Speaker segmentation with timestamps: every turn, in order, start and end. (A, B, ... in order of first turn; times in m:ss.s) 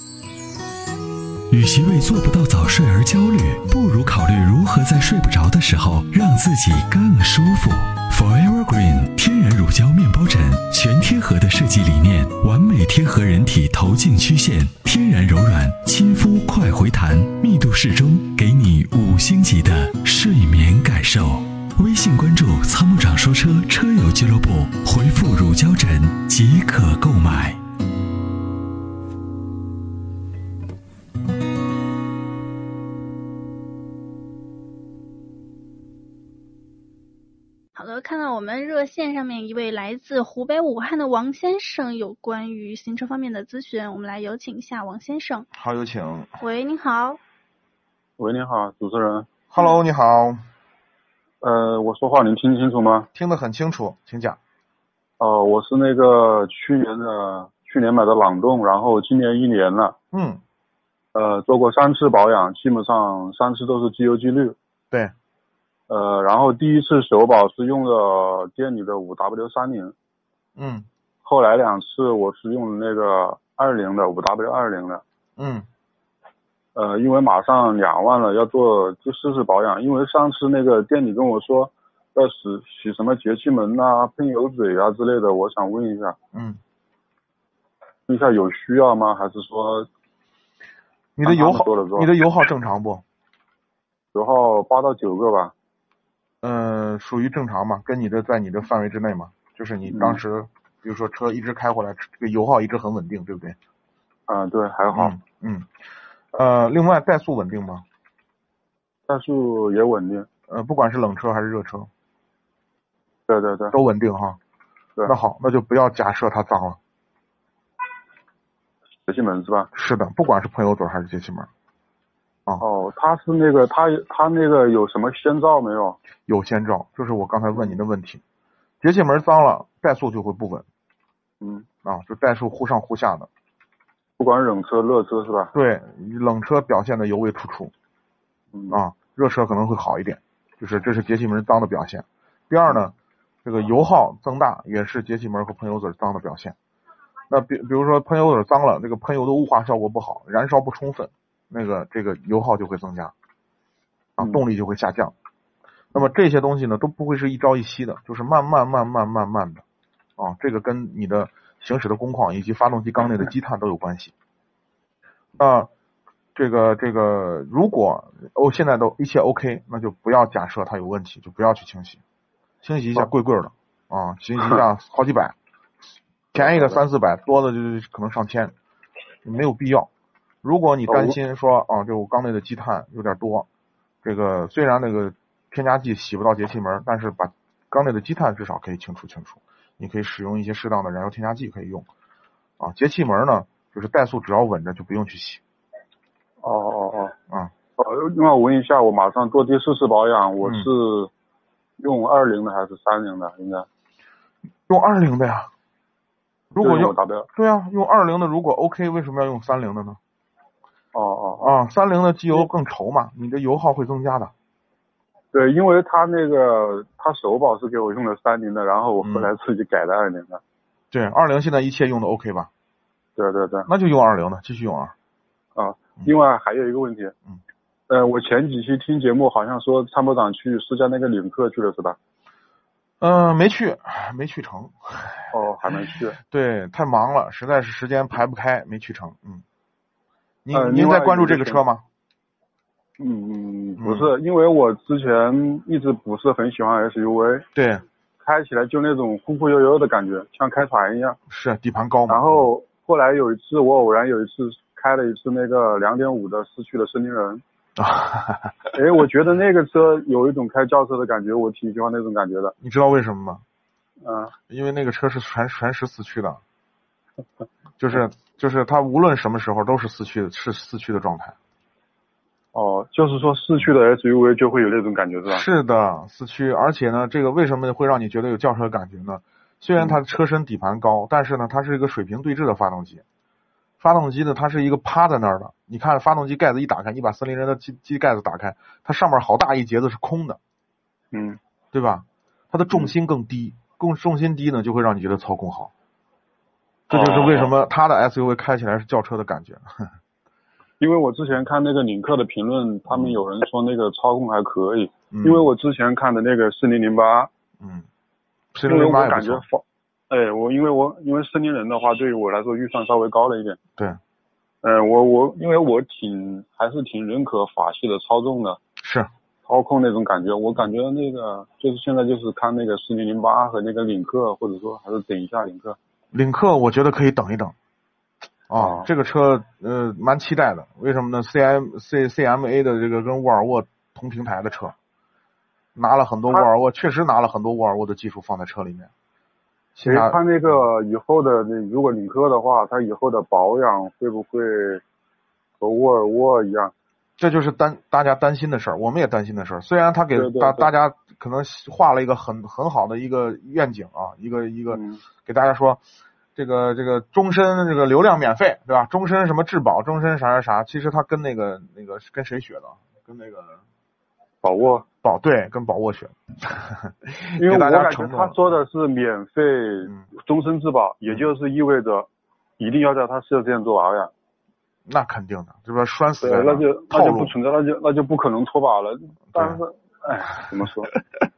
0:01.5-0:27.6 A
0:37.8-0:45.5 B
0:45.6-0:46.4 C
0:46.4-0:47.2 B
0:48.2-0:49.3 D
0:49.5-0:50.4 C
0:51.4-0:53.1 D
0:53.2-0:54.4 C
0:55.2-1:00.0 D
1:00.1-1:00.4 C
1:01.1-1:04.6 D
1:05.9-1:09.9 D
1:10.6-1:10.9 C
1:11.2-1:15.0 D
1:15.4-1:15.7 C
1:16.8-1:26.2 D
1:26.3-1:26.6 C
1:28.1-1:29.9 D
1:31.2-1:33.0 C
1:31.2-1:32.1 D
1:34.1-1:35.5 D
1:36.4-1:43.6 C
1:39.9-1:40.2 D
1:44.3-1:45.2 D
1:44.9-1:45.7 C
1:46.3-1:47.8 C
1:49.1-1:50.3 D
1:50.5-1:51.9 C
1:53.3-1:53.8 D
1:53.7-1:54.4 C
1:55.1-1:56.8 C
1:59.1-1:59.7 D
1:59.7-2:01.5 C
2:02.6-2:06.0 D
2:06.3-2:08.2 C
2:08.8-2:10.7 C
2:11.4-2:11.7 D
2:11.8-2:13.3 C
2:14.2-2:15.5 D
2:15.5-2:17.7 C
2:18.5-2:18.8 D
2:18.7-2:22.9 C
2:23.4-2:26.6 C
2:27.3-2:33.1 C
2:34.2-2:35.1 C
2:35.9-2:39.6 C
2:40.2-2:44.1 C
2:45.4-2:45.7 C
2:46.4-2:52.0 C
2:52.6-2:55.4 C
2:56.3-2:56.8 D
2:56.4-2:58.5 C
2:59.2-2:59.9 C
3:00.4-3:03.5 C
3:00.9-3:01.2 D
3:04.0-3:11.9 C
3:12.6-3:15.4 C
3:16.4-3:17.1 D
3:17.8-3:21.1 D
3:20.4-3:20.7 C
3:21.8-3:23.7 D
3:24.7-3:25.5 C
3:26.5-3:30.0 C
3:26.6-3:27.3 D
3:30.9-3:31.6 D
3:31.4-3:34.3 C
3:35.3-3:40.4 D
3:39.0-3:39.3 C
3:40.9-3:42.5 C
3:43.2-3:43.7 D
3:43.7-3:44.9 C
3:45.6-3:47.1 D
3:47.9-3:52.0 D
3:53.0-3:55.3 C
3:55.3-3:56.2 D
3:56.2-3:59.4 C
4:00.4-4:01.8 C
4:00.5-4:01.6 D
4:03.0-4:07.5 D
4:03.8-4:04.1 C
4:07.6-4:07.8 C
4:08.2-4:11.2 D
4:11.3-4:12.5 C
4:12.1-4:17.4 D
4:17.8-4:18.7 C
4:18.7-4:22.5 D
4:22.6-4:23.4 C
4:24.0-4:24.3 D
4:24.5-4:26.4 C
4:27.8-4:31.4 C
4:32.5-4:35.4 D
4:35.3-4:43.0 C
4:43.8-4:50.4 C
4:51.1-4:51.4 D
4:51.7-4:55.7 C
4:56.9-4:57.5 D
4:56.9-4:59.6 C
5:00.8-5:07.3 D
5:02.9-5:03.2 C
5:05.1-5:05.5 C
5:07.6-5:07.9 C
5:08.5-5:09.4 C
5:08.7-5:13.6 D
5:14.6-5:18.6 D
5:18.8-5:19.1 C
5:19.4-5:25.8 D
5:26.1-5:27.6 C
5:28.5-5:34.7 C
5:28.6-5:28.9 D
5:35.8-5:38.9 C
5:39.8-5:40.6 C
5:39.8-5:44.8 D
5:45.6-5:46.7 D
5:47.2-5:55.8 C
5:50.2-5:50.7 D
5:54.7-5:55.0 D
5:56.4-6:03.6 C
6:04.4-6:04.9 D
6:05.0-6:08.5 C
6:07.4-6:12.1 D
6:12.6-6:14.1 D
6:14.9-6:17.4 C
6:16.2-6:20.9 D
6:19.3-6:19.6 C